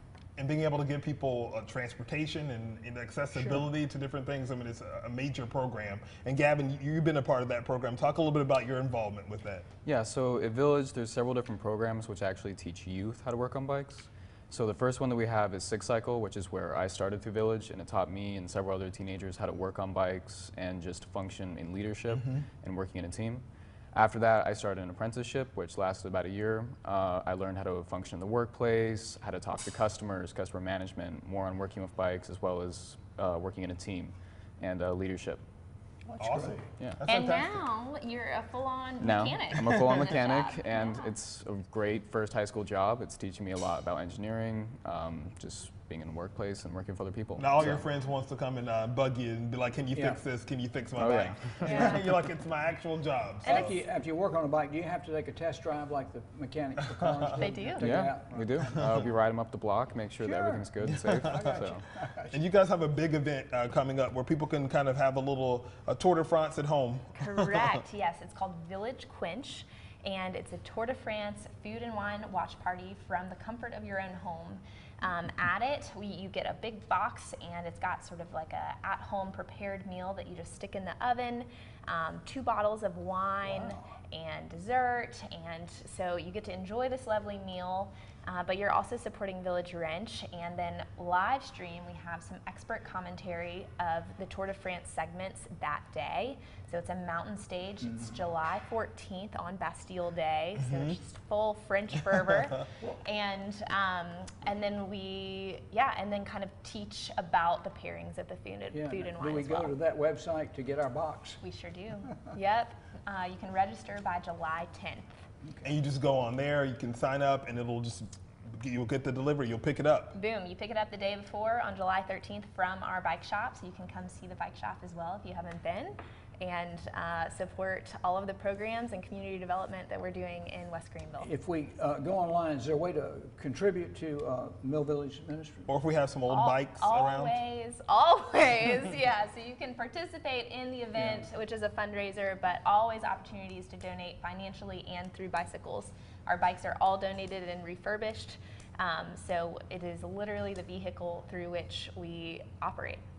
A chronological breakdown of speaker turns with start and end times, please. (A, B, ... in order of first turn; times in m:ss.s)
0:00.4-0:09.6 A
0:03.4-0:03.7 B
0:09.8-0:35.4 C
0:36.1-0:36.7 B
0:36.2-0:37.6 A
0:37.0-0:41.1 D
0:39.0-0:47.8 C
0:47.4-0:53.8 A
0:49.9-0:50.3 B
0:51.0-0:52.0 C
0:51.6-0:52.0 D
0:53.4-0:53.8 D
0:53.4-0:58.9 B
0:56.8-0:57.4 A
0:57.4-0:58.0 D
0:57.8-1:01.8 C
1:00.2-1:02.5 B
1:00.9-1:01.6 A
1:02.3-1:07.8 A
1:07.2-1:49.8 D
1:23.4-1:23.9 B
1:37.9-1:38.1 B
1:48.7-1:51.4 B
1:51.4-1:55.1 D
1:55.5-1:55.8 B
1:55.6-2:00.2 A
2:00.1-2:11.3 D
2:11.2-2:15.7 B
2:15.7-2:17.4 A
2:16.3-2:33.0 D
2:21.0-2:21.2 B